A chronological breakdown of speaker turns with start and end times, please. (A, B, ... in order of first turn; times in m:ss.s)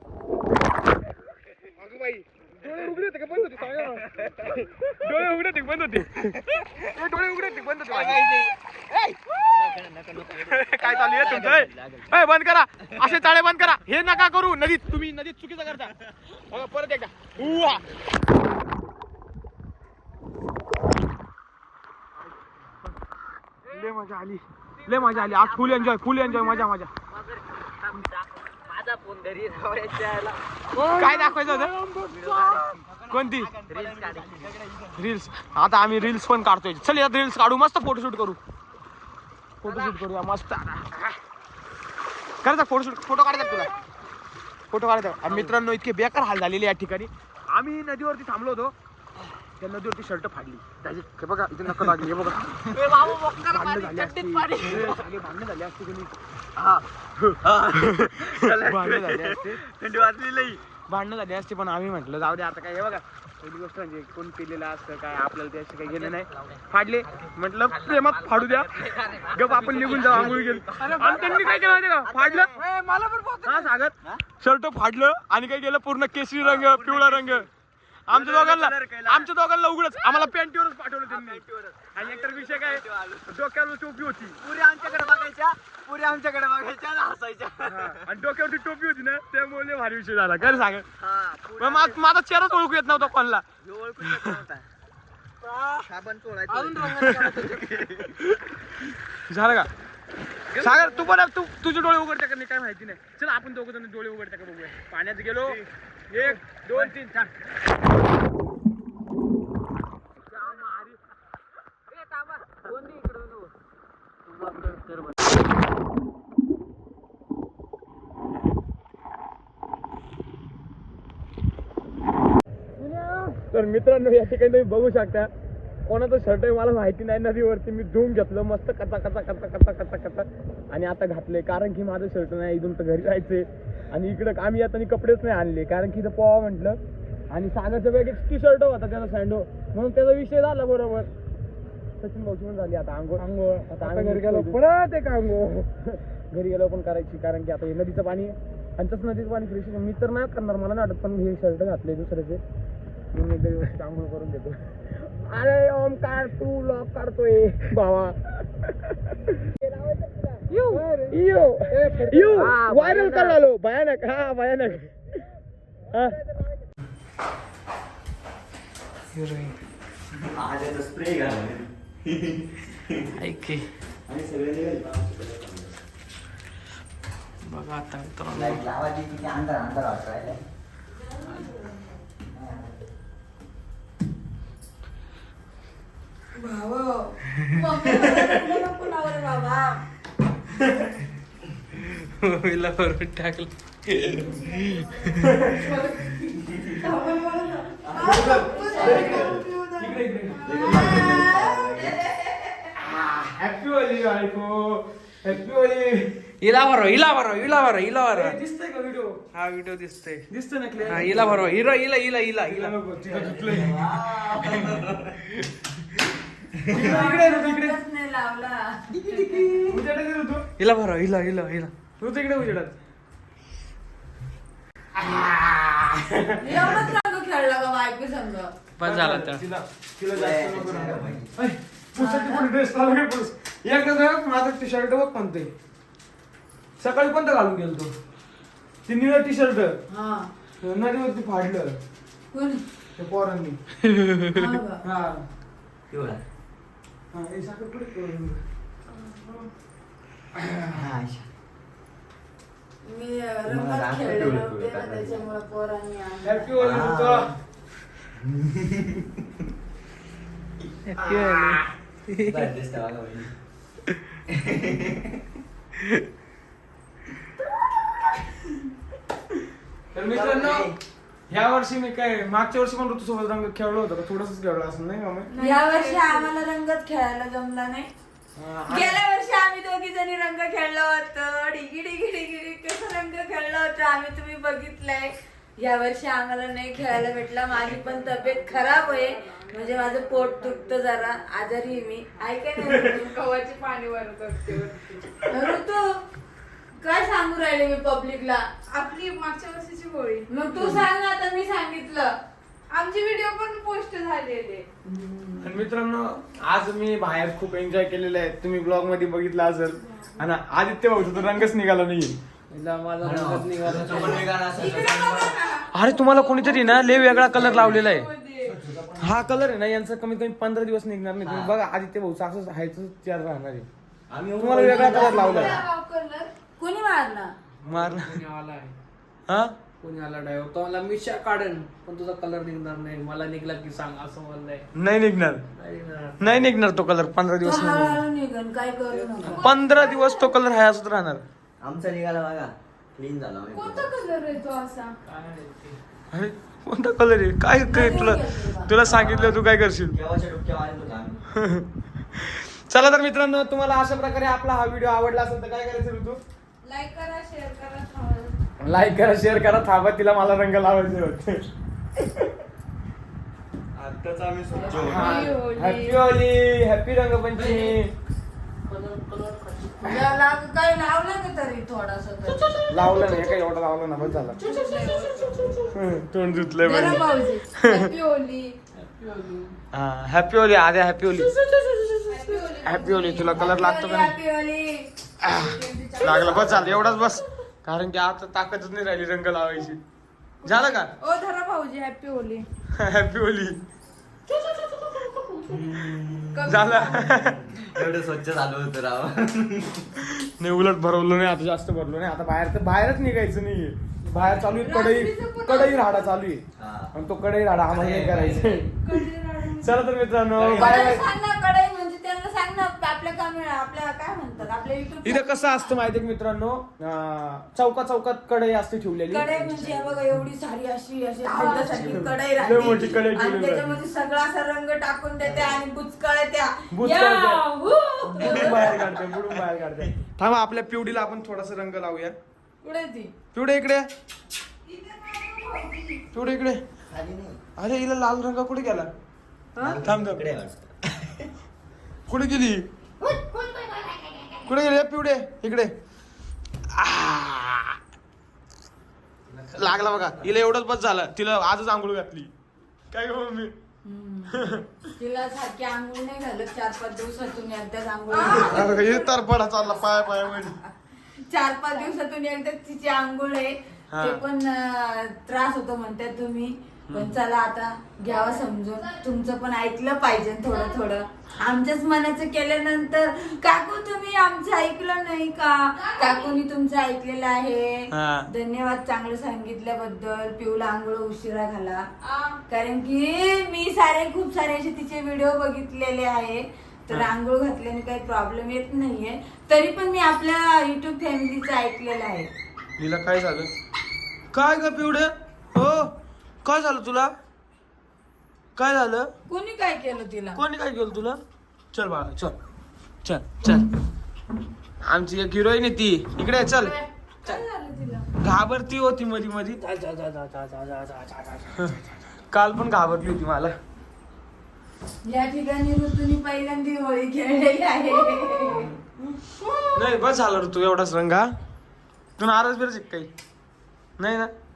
0:01.8-0:04.1 A
0:03.8-0:04.6 B
0:04.9-0:06.4 A
0:06.9-0:08.3 A
0:07.8-0:12.1 B
0:10.5-0:15.9 A
0:16.5-0:17.8 A
0:23.7-0:26.9 A
0:25.0-0:25.8 B
0:27.8-0:30.4 B
0:30.9-0:31.7 A
0:31.3-0:32.0 C
0:32.0-0:34.9 B
0:33.1-0:33.5 A
0:35.0-0:38.4 A
0:39.6-0:41.2 A
0:42.4-0:43.7 A
0:44.7-0:48.7 A
0:49.6-0:56.1 A
0:52.8-0:54.8 C
0:54.6-0:54.9 B
0:56.6-0:56.8 B
0:57.2-0:59.6 A
0:57.4-1:00.6 B
1:00.9-1:12.5 A
1:07.8-1:11.5 B
1:10.8-1:11.6 C
1:12.0-1:12.6 B
1:12.6-1:13.7 C
1:13.4-1:17.5 A
1:16.4-1:17.4 B
1:18.1-1:21.4 A
1:18.1-1:19.3 B
1:21.1-1:23.3 B
1:21.9-1:24.4 A
1:24.4-1:28.0 B
1:27.6-1:30.8 A
1:30.4-1:32.0 B
1:31.6-1:33.4 A
1:33.6-1:34.6 B
1:35.5-1:35.8 C
1:35.8-1:38.2 B
1:36.5-1:37.9 C
1:37.0-1:37.2 A
1:39.3-1:39.7 A
1:40.5-1:41.0 C
1:40.6-1:47.3 A
1:50.3-1:51.0 A
2:02.8-2:05.3 A
2:05.9-2:16.8 A
2:17.3-2:21.1 A
2:22.0-2:24.6 A
2:23.2-2:25.4 C
2:25.6-2:32.4 A
2:33.1-2:34.6 A
2:35.2-2:38.2 A
2:40.5-2:41.1 C
2:41.1-2:44.9 A
2:41.7-2:43.4 C
2:45.9-2:46.2 A
2:49.1-2:49.6 C
2:50.2-2:53.1 B
2:53.1-2:53.6 C
2:54.1-2:55.8 B
2:57.4-2:58.6 C
2:58.3-3:00.4 B
3:02.3-3:02.8 B
3:06.4-3:09.7 D
3:07.8-3:08.5 E
3:11.9-3:15.2 C
3:15.2-3:15.6 A
3:15.6-3:16.1 E
3:16.8-3:20.0 D
3:17.8-3:19.4 B
3:18.0-3:19.4 E
3:18.0-3:19.2 A
3:19.8-3:20.4 A
3:20.4-3:22.0 B
3:20.6-3:21.6 D
3:22.8-3:26.1 A
3:26.4-3:28.4 C
3:28.1-3:29.2 A
3:29.3-3:30.2 C
3:30.3-3:31.6 A
3:30.9-3:32.7 C
3:32.4-3:34.0 A
3:33.0-3:35.2 B
3:36.7-3:37.0 B
3:36.7-3:37.8 A
3:36.7-3:39.7 D
3:39.6-3:40.4 A
3:40.6-3:41.7 C
3:42.0-3:42.8 A
3:45.0-3:46.8 A
3:46.4-3:48.5 D
3:48.8-3:49.4 C
3:48.8-3:55.5 A
3:50.1-3:51.3 B
3:52.0-3:52.4 D
3:56.8-3:57.9 A
3:58.9-3:59.8 A
3:59.9-4:00.3 D
4:00.6-4:01.8 A
4:02.3-4:02.6 D
4:03.0-4:03.6 A
4:03.9-4:04.4 C
4:04.3-4:04.8 D
4:04.8-4:05.2 A
4:05.9-4:06.2 B
4:07.1-4:08.4 A
4:10.6-4:11.3 B
4:12.8-4:16.4 D
4:13.5-4:15.2 B
4:16.2-4:17.3 A
4:16.6-4:17.4 B
4:18.2-4:19.1 B
4:20.9-4:22.5 C
4:21.1-4:21.5 B
4:22.2-4:23.3 B
4:24.3-4:25.2 B
4:29.9-4:30.7 A
4:30.1-4:30.8 B
4:31.3-4:35.3 A
4:35.3-4:36.3 E
4:35.4-4:37.9 D
4:38.4-4:39.0 A
4:38.7-4:53.2 D
4:47.8-4:50.9 E
4:52.8-4:55.0 E
4:55.2-4:56.0 D
4:56.8-4:58.4 D
4:58.7-5:00.8 E
5:00.3-5:02.2 D
5:02.7-5:04.6 E
5:04.8-5:05.6 D
5:05.4-5:12.1 A
5:12.5-5:14.5 C
5:13.0-5:15.4 B
5:14.5-5:18.6 E
5:15.7-5:18.1 A
5:17.3-5:19.5 B
5:19.0-5:23.7 A
5:21.2-5:21.5 B
5:24.1-5:25.6 B
5:24.4-5:25.6 A
5:24.6-5:26.3 E
5:24.9-5:25.6 D
5:26.6-5:27.3 D
5:27.6-5:28.7 C
5:27.6-5:28.1 A
5:29.3-5:29.5 A
5:29.8-5:34.6 C
5:34.8-5:35.4 A
5:35.6-5:36.4 C
5:36.2-5:38.0 A
5:37.4-5:39.4 D
5:38.9-5:39.5 C
5:39.3-5:40.3 E
5:39.4-5:41.2 A
5:41.6-5:43.9 B
5:43.5-5:44.9 E
5:45.0-5:45.8 C
5:46.1-5:49.9 A
5:47.7-5:48.7 D
5:48.8-5:51.2 B
5:51.3-5:56.2 A
5:56.6-5:58.4 E
5:58.6-6:01.4 A
6:03.7-6:05.4 B
6:04.5-6:06.0 E
6:04.8-6:07.9 A
6:07.4-6:07.7 C
6:08.7-6:10.1 C
6:09.8-6:12.6 D
6:12.7-6:14.4 A
6:14.4-6:15.8 E
6:15.7-6:17.9 A
6:16.6-6:18.6 E
6:18.8-6:19.5 C
6:19.7-6:21.3 A
6:22.1-6:23.6 E
6:22.6-6:24.1 A
6:23.3-6:25.4 D
6:25.3-6:26.7 E
6:26.0-6:26.3 D
6:26.0-6:29.8 A
6:30.4-6:30.9 A
6:30.5-6:32.4 E
6:32.8-6:33.6 A
6:35.0-6:35.6 E
6:35.5-6:39.9 B
6:36.3-6:37.1 E
6:36.4-6:37.4 A
6:40.0-6:48.9 A
6:44.5-6:46.1 E
6:46.6-6:46.9 B
6:47.7-6:48.7 B
6:48.8-6:49.8 E
6:49.6-6:51.0 A
6:50.3-6:51.0 B
6:50.5-6:55.7 D
6:55.0-6:59.3 A
6:59.1-7:06.6 D
6:59.3-7:00.0 B
7:01.3-7:01.9 E
7:01.4-7:03.8 A
7:01.7-7:03.0 B
7:05.2-7:05.6 B
7:06.7-7:07.4 A
7:06.8-7:08.8 E
7:08.0-7:12.1 A
7:08.2-7:09.2 B
7:12.6-7:13.1 D
7:12.7-7:13.1 E
7:13.3-7:13.8 A
7:14.7-7:16.0 E
7:16.1-7:16.6 A
7:16.9-7:17.4 B
7:17.6-7:18.9 A
7:19.6-7:21.3 B
7:19.8-7:20.3 A
7:22.1-7:22.6 A
7:23.0-7:24.4 E
7:24.4-7:25.7 A
7:26.8-7:27.8 A
7:29.3-7:30.3 B
7:29.6-7:32.3 A
7:32.9-7:33.5 A
7:33.8-7:34.4 D
7:34.3-7:34.6 A
7:35.0-7:39.0 D
7:38.1-7:39.1 E
7:38.2-7:40.5 A
7:39.9-7:40.7 D
7:41.3-8:01.8 D
7:43.9-7:44.2 A
7:46.9-7:47.2 A
7:48.1-7:49.0 E
7:55.7-7:56.4 E
7:57.9-7:58.3 A
8:02.0-8:02.4 E
8:02.5-8:12.3 D
8:12.8-8:13.5 A
8:14.3-8:15.9 A
8:16.4-8:17.1 A
8:18.6-8:19.1 A
8:19.3-8:20.4 D
8:20.3-8:21.2 A
8:21.7-8:22.4 A
8:23.0-8:23.7 A
8:24.8-8:26.8 A
8:26.5-8:28.1 E
8:28.2-8:29.6 A
8:29.6-8:31.8 C
8:32.3-8:33.5 A
8:35.0-8:38.7 D
8:38.5-8:38.8 A
8:39.7-8:41.3 A
8:42.2-8:43.1 A
8:44.0-8:44.3 A